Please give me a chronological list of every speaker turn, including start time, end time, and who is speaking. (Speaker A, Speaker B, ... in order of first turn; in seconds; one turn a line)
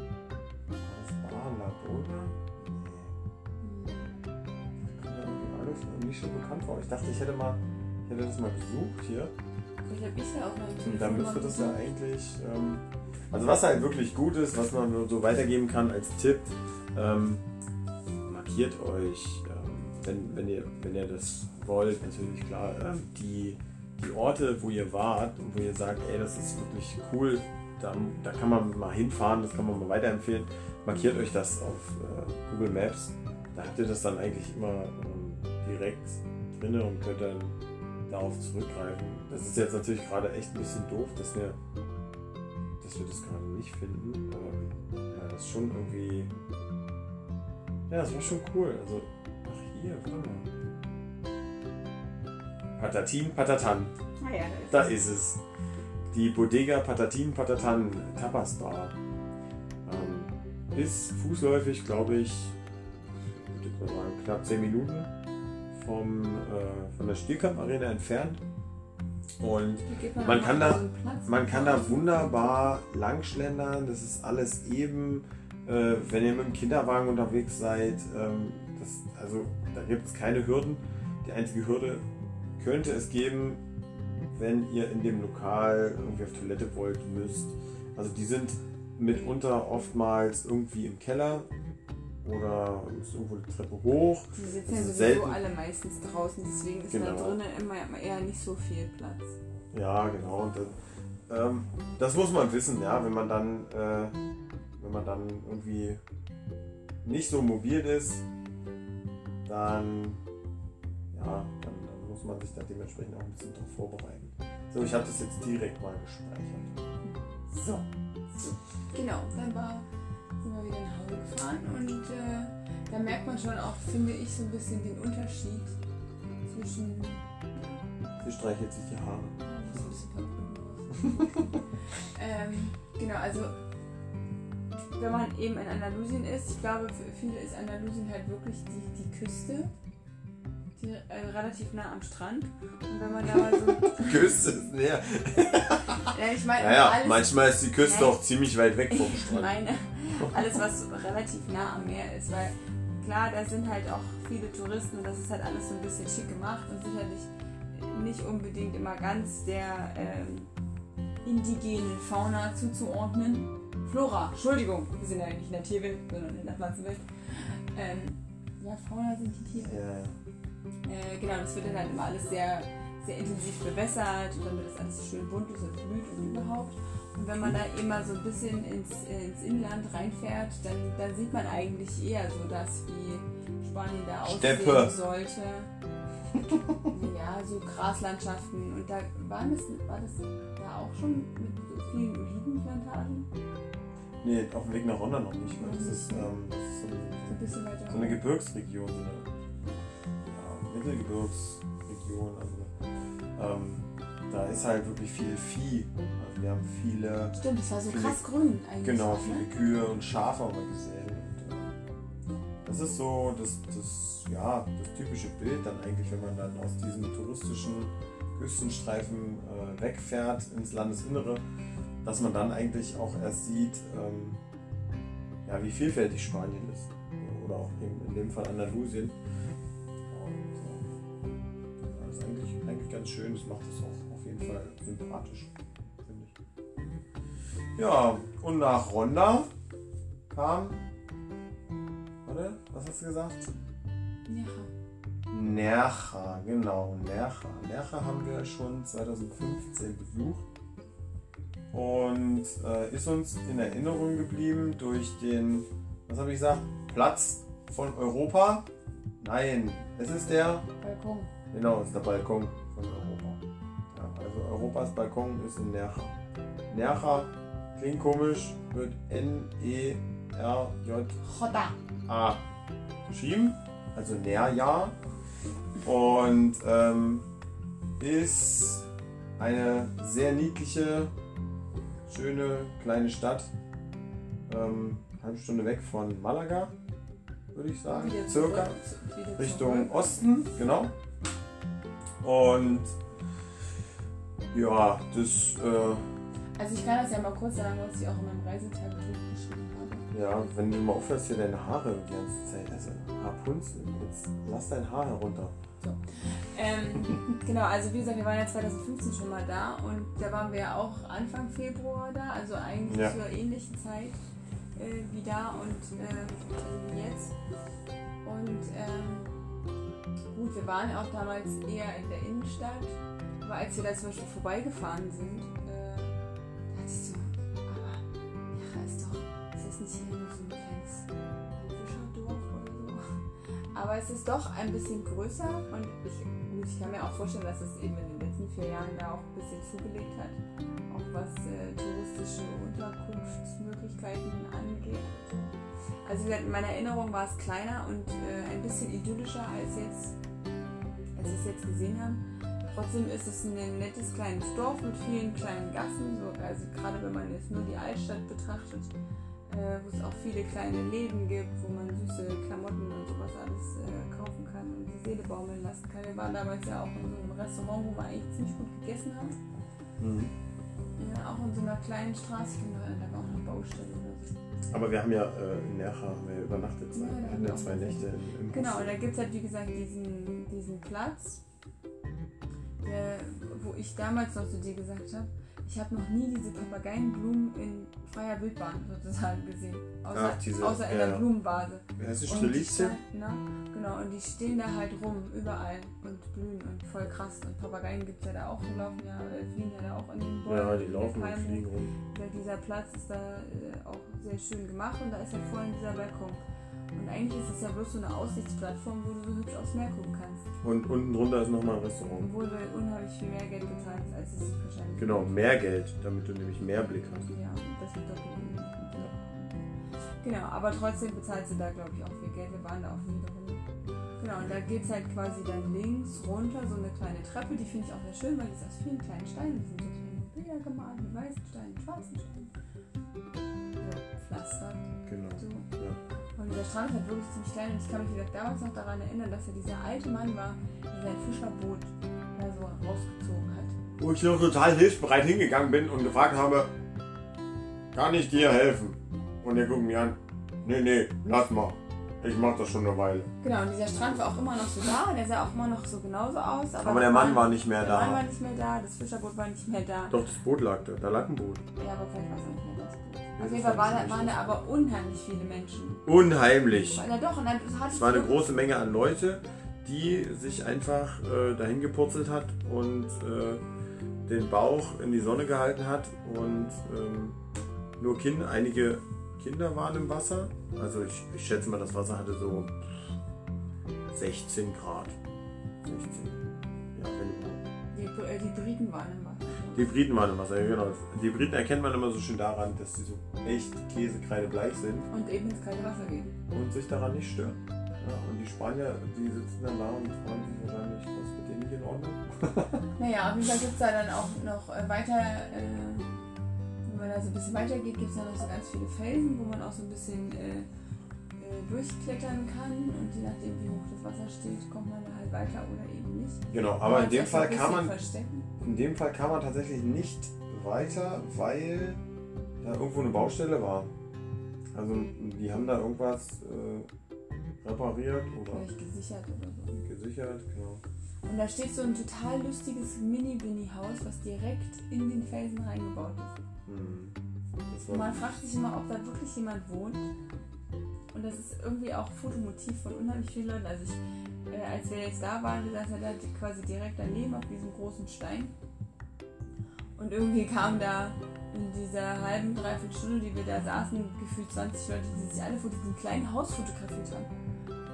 Speaker A: 0.8-3.1
Speaker B: 3.6-4.1
Speaker A: 4.8-9.3
Speaker B: 9.9-11.9
Speaker A: 10.8-17.4
Speaker A: 18.2-41.6
Speaker A: 42.8-46.3
Speaker A: 47.9-50.5
Speaker A: 52.8-53.9
Speaker B: 54.2-55.0
Speaker A: 54.7-55.4
Speaker A: 56.1-58.9
Speaker A: 59.9-62.6
Speaker A: 63.1-65.1
Speaker A: 65.7-68.4
Speaker A: 69.4-91.5
Speaker B: 69.8-72.8
Speaker A: 92.2-95.4
Speaker B: 94.3-99.3
Speaker A: 96.9-97.4
Speaker A: 99.7-104.1
Speaker A: 104.8-106.0
Speaker A: 107.0-108.2
Speaker A: 109.4-110.2
Speaker A: 111.1-116.7
Speaker B: 117.0-117.8
Speaker A: 117.5-117.8
Speaker B: 118.3-119.8
Speaker B: 120.4-125.8
Speaker B: 126.5-128.1
Speaker A: 128.2-129.4
Speaker B: 129.4-133.5
Speaker B: 134.9-139.7
Speaker B: 140.8-144.3
Speaker A: 143.8-149.6
Speaker B: 146.1-148.2
Speaker B: 148.9-160.5
Speaker B: 161.2-169.7
Speaker A: 169.5-170.1
Speaker B: 170.8-185.7
Speaker A: 177.3-177.6
Speaker A: 184.2-184.9
Speaker A: 186.3-186.9
Speaker B: 186.9-193.3
Speaker A: 194.2-199.3
Speaker B: 195.6-196.3
Speaker B: 197.3-198.2
Speaker A: 200.2-202.7
Speaker A: 203.4-208.2
Speaker B: 207.4-209.5
Speaker A: 208.8-211.8
Speaker A: 212.6-221.4
Speaker A: 222.0-224.4
Speaker A: 225.4-229.2
Speaker A: 230.1-230.9
Speaker A: 231.8-236.3
Speaker A: 237.8-239.5
Speaker A: 240.3-240.8
Speaker A: 242.2-243.5
Speaker B: 244.3-244.7
Speaker A: 245.3-250.4
Speaker A: 251.7-258.7
Speaker A: 259.2-260.6
Speaker B: 260.8-261.3
Speaker A: 261.5-263.4
Speaker A: 263.9-266.1
Speaker A: 266.7-271.2
Speaker B: 271.2-271.8
Speaker A: 272.1-272.4
Speaker A: 273.1-275.0
Speaker A: 275.8-277.2
Speaker A: 278.0-278.9
Speaker A: 279.4-281.1
Speaker A: 282.1-283.5
Speaker A: 284.5-286.7
Speaker A: 287.5-288.8
Speaker B: 287.9-290.2
Speaker A: 289.4-290.9
Speaker A: 292.2-292.9
Speaker A: 294.5-296.1
Speaker B: 296.6-300.1
Speaker A: 300.1-305.6
Speaker B: 305.8-314.2
Speaker A: 312.9-313.2
Speaker B: 314.7-317.3
Speaker B: 318.2-319.3
Speaker B: 320.3-326.1
Speaker B: 326.7-333.1
Speaker B: 333.7-340.4
Speaker B: 340.9-345.5
Speaker B: 346.1-350.1
Speaker B: 351.1-358.9
Speaker B: 359.5-369.4
Speaker A: 370.0-370.3
Speaker B: 371.0-374.3
Speaker A: 374.7-378.9
Speaker B: 376.9-381.4
Speaker B: 382.8-406.4
Speaker A: 390.1-391.2
Speaker A: 392.0-393.0
Speaker A: 400.4-401.9
Speaker B: 406.9-410.5
Speaker A: 410.6-412.3
Speaker B: 412.2-415.4
Speaker A: 415.0-417.3
Speaker B: 417.3-419.7
Speaker B: 420.2-423.6
Speaker B: 424.2-432.5
Speaker B: 433.8-435.7
Speaker A: 435.1-436.0
Speaker B: 436.4-443.8
Speaker A: 444.0-446.7
Speaker A: 447.9-453.3
Speaker B: 453.4-460.1
Speaker A: 456.8-458.2
Speaker A: 460.1-461.6
Speaker B: 461.8-466.1
Speaker A: 463.4-464.5
Speaker A: 466.1-467.0
Speaker B: 466.9-468.3
Speaker A: 467.9-473.6
Speaker A: 474.2-477.4
Speaker A: 478.0-483.1
Speaker A: 484.1-485.2
Speaker A: 485.8-486.4
Speaker A: 486.9-487.6
Speaker B: 487.9-489.9
Speaker A: 489.7-495.1
Speaker B: 495.1-496.3
Speaker A: 496.5-502.9
Speaker B: 503.0-506.1
Speaker B: 506.9-510.7
Speaker B: 511.4-518.5
Speaker A: 516.5-518.0
Speaker A: 518.6-522.0
Speaker A: 522.6-523.9
Speaker A: 524.7-526.9
Speaker A: 527.6-528.7
Speaker B: 528.5-529.8
Speaker A: 529.7-530.8
Speaker B: 531.2-536.4
Speaker A: 536.7-537.1
Speaker A: 537.7-538.2
Speaker B: 537.9-540.1
Speaker B: 541.1-548.5
Speaker B: 550.0-557.3